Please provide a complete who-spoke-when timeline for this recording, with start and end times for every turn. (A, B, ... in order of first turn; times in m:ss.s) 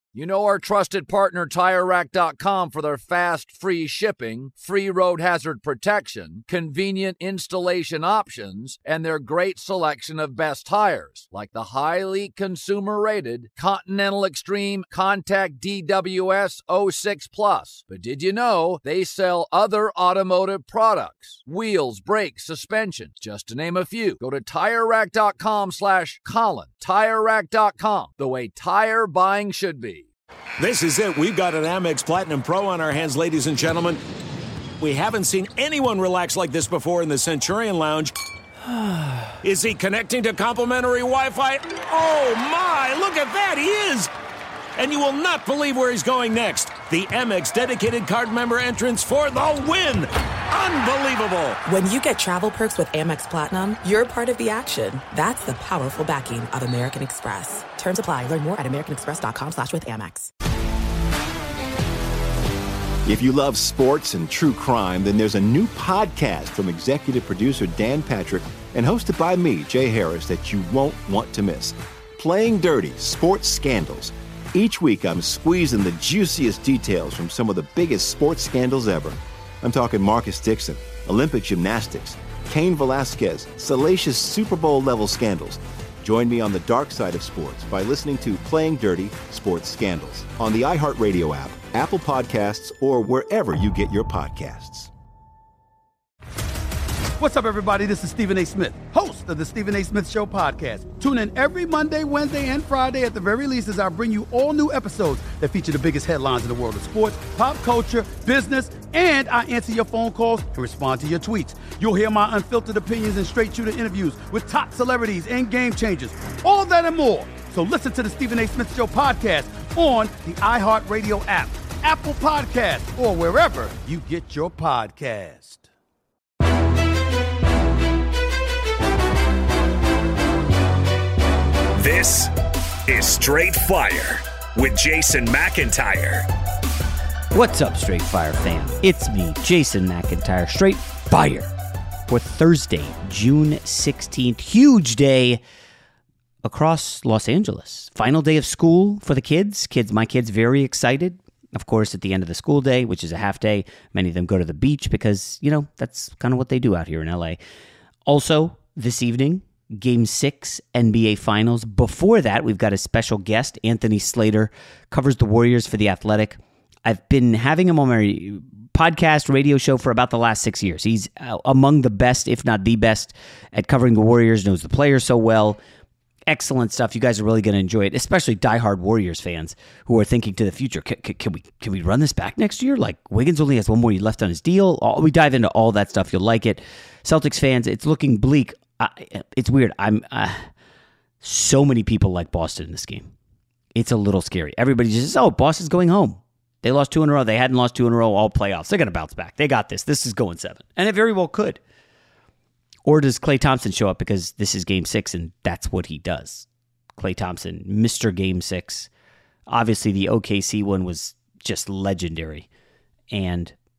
0:00.1-0:30.1 A
0:30.6-0:34.0 B
0:34.8-0:38.1 B
0:39.4-0:44.1 B
0:44.8-0:51.6 B
0:51.7-1:00.3 C
1:03.1-1:34.9 D
1:37.2-2:05.7 E
2:11.8-2:12.3 F
2:12.9-2:14.2 F
2:14.6-2:16.1 B
2:14.9-2:16.2 F
2:17.3-2:21.5 G
2:22.1-2:25.4 G
2:26.4-2:37.4 G
2:38.1-2:55.6 G
2:56.3-3:10.5 G
3:11.2-3:13.1 G
3:13.7-3:21.6 G
3:22.8-3:28.9 G
3:29.5-3:32.5 G
3:33.1-3:33.6 G